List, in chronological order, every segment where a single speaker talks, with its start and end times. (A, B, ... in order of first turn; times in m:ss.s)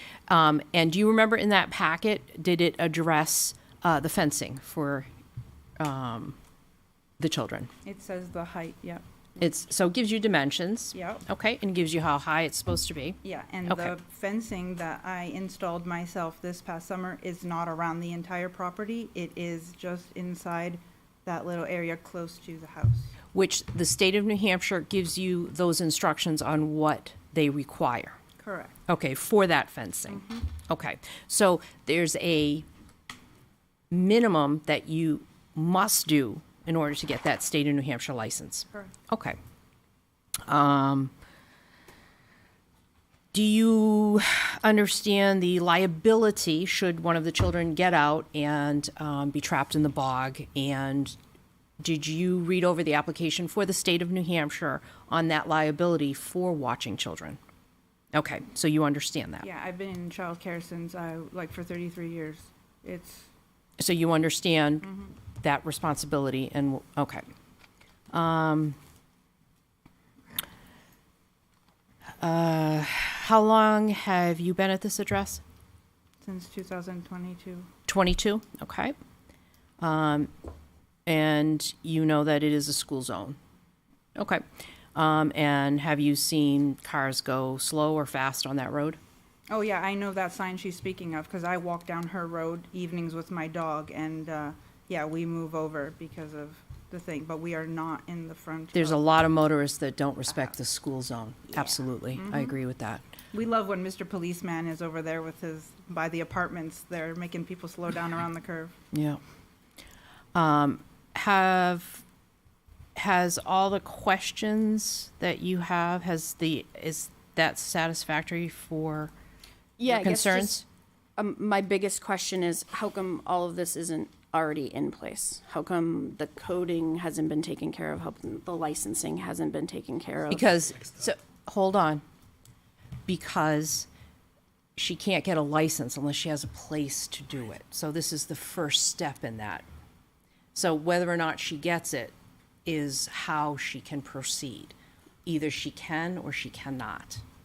0:00.3-0:05.1 A
0:05.8-0:06.4 A
0:07.2-0:07.7 A
0:07.8-0:09.5 B
0:09.4-0:13.9 A
0:10.9-0:11.2 B
0:13.2-0:23.1 B
0:23.3-0:28.2 A
0:28.4-0:28.8 B
0:28.9-0:32.6 A
0:30.1-0:30.4 B
0:33.9-0:39.4 A
0:40.5-0:41.1 A
0:43.3-0:51.2 A
0:51.8-0:57.4 A
0:58.1-0:59.4 A
0:59.4-1:03.3 B
1:03.8-1:07.2 A
1:08.1-1:08.8 A
1:12.2-1:15.4 A
1:16.2-1:17.7 B
1:17.9-1:19.0 A
1:19.8-1:20.3 A
1:21.0-1:23.4 A
1:24.2-1:24.4 A
1:24.9-1:29.0 A
1:29.5-1:39.2 B
1:38.7-1:43.0 A
1:41.6-1:42.6 B
1:43.3-1:48.7 B
1:48.9-1:49.2 A
1:50.3-1:52.0 A
1:52.9-1:59.1 A
1:59.8-2:00.6 C
1:59.9-2:00.6 A
2:01.2-2:10.5 C
2:10.3-2:12.0 A
2:13.1-2:13.9 A
2:14.8-2:19.6 A
2:20.5-2:24.7 A
2:25.2-2:27.2 A